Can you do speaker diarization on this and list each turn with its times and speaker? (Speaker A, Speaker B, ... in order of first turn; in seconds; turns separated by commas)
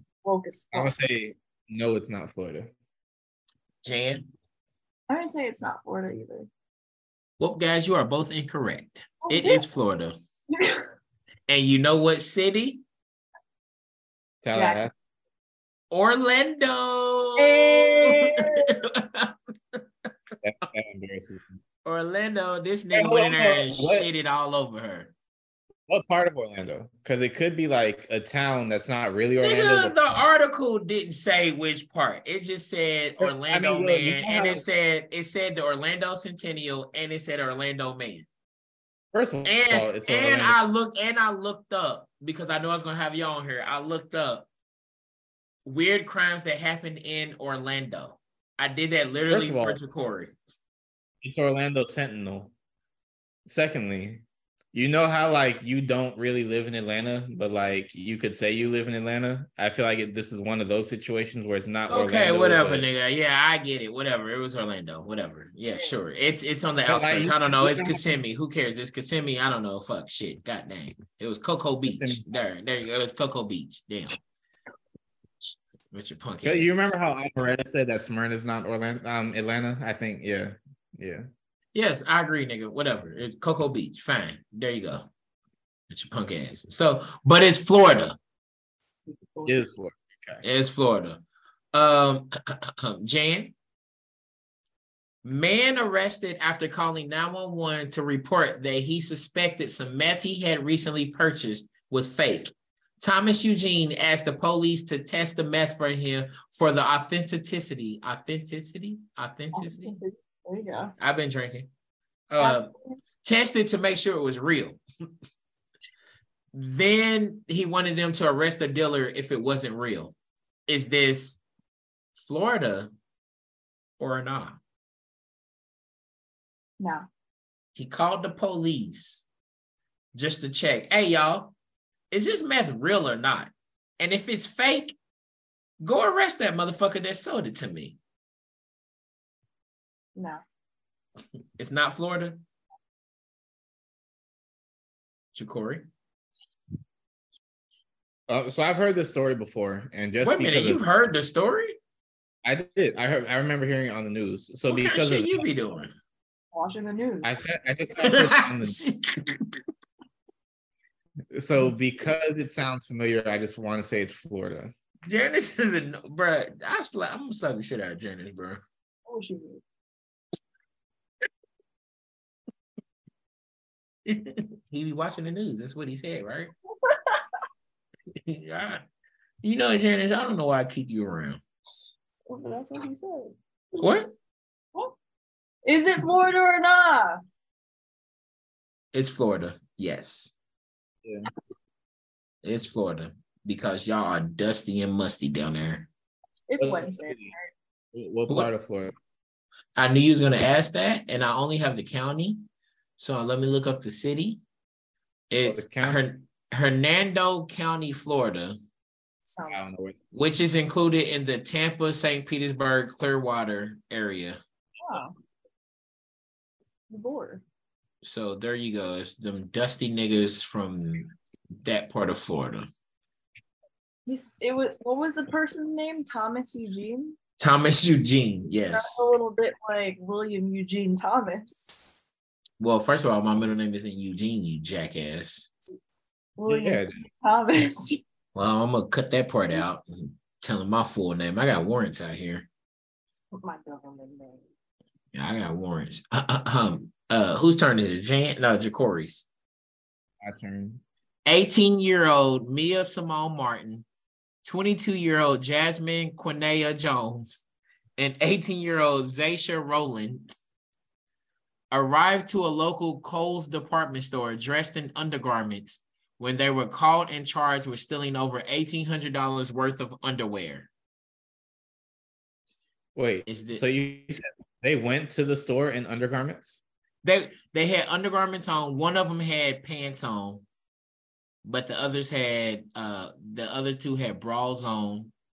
Speaker A: 0.2-0.9, Speaker B: 0.7-2.7, Speaker C: 3.8-4.2, Speaker A: 5.1-6.5, Speaker C: 7.4-10.2, Speaker A: 9.2-9.7, Speaker A: 10.5-10.8, Speaker C: 11.5-12.8, Speaker B: 14.4-14.9, Speaker A: 14.5-14.9, Speaker C: 15.9-19.8, Speaker A: 17.4-18.7, Speaker B: 20.4-21.6, Speaker C: 21.9-25.1, Speaker B: 22.9-24.1, Speaker B: 25.9-29.9, Speaker C: 29.4-38.3, Speaker B: 33.2-34.6, Speaker B: 39.1-40.6, Speaker C: 39.5-44.5, Speaker C: 45.6-50.4, Speaker B: 49.3-49.8, Speaker B: 51.2-52.5, Speaker B: 53.5-62.9, Speaker C: 61.9-74.2, Speaker B: 66.9-68.0, Speaker B: 71.9-72.2, Speaker C: 75.9-77.0, Speaker B: 76.4-81.2, Speaker C: 81.7-85.1, Speaker C: 85.9-88.2, Speaker A: 89.1-89.7, Speaker B: 89.5-90.4, Speaker C: 90.4-93.5, Speaker C: 95.2-110.0, Speaker A: 109.5-110.9, Speaker C: 111.0-111.7, Speaker C: 112.3-112.7, Speaker A: 112.4-113.0, Speaker C: 113.2-114.8, Speaker C: 116.5-120.1, Speaker C: 120.7-121.4, Speaker C: 122.2-122.9, Speaker C: 124.0-124.6, Speaker A: 126.8-127.1, Speaker C: 127.8-129.3, Speaker C: 130.1-131.6, Speaker C: 132.1-135.0, Speaker C: 135.8-138.0, Speaker A: 140.2-140.4, Speaker C: 141.6-142.4, Speaker C: 145.3-145.9, Speaker B: 148.3-150.8, Speaker C: 150.2-151.8, Speaker B: 152.4-155.4, Speaker C: 154.7-155.9, Speaker A: 156.5-157.4, Speaker B: 157.2-158.8, Speaker C: 158.0-159.6, Speaker B: 161.3-164.7, Speaker C: 165.1-168.6, Speaker A: 169.1-169.6, Speaker C: 174.1-176.5, Speaker A: 176.9-177.2, Speaker C: 178.2-178.8, Speaker C: 179.4-181.4, Speaker A: 182.3-184.0, Speaker C: 183.8-184.1, Speaker A: 185.7-187.2, Speaker C: 188.9-190.3, Speaker C: 192.4-195.9, Speaker A: 196.5-197.5, Speaker B: 196.6-197.3, Speaker B: 197.9-198.9, Speaker C: 199.8-202.4, Speaker C: 203.0-204.4, Speaker C: 205.3-208.6, Speaker B: 205.4-206.0, Speaker A: 209.2-209.7, Speaker B: 209.5-210.0, Speaker C: 210.1-214.4, Speaker A: 214.8-215.1, Speaker A: 216.9-217.4, Speaker C: 218.0-222.7, Speaker A: 224.1-227.2, Speaker C: 227.4-229.1, Speaker A: 228.7-231.9, Speaker C: 232.6-235.5, Speaker A: 236.4-238.0, Speaker B: 236.5-237.0, Speaker C: 238.3-242.5, Speaker A: 243.4-244.4, Speaker C: 245.1-249.3, Speaker B: 250.2-250.8, Speaker C: 251.3-253.8, Speaker C: 254.4-257.5, Speaker C: 258.0-260.3, Speaker C: 261.7-270.7, Speaker B: 272.9-276.6, Speaker C: 273.3-273.6, Speaker C: 277.0-280.4, Speaker C: 281.4-285.1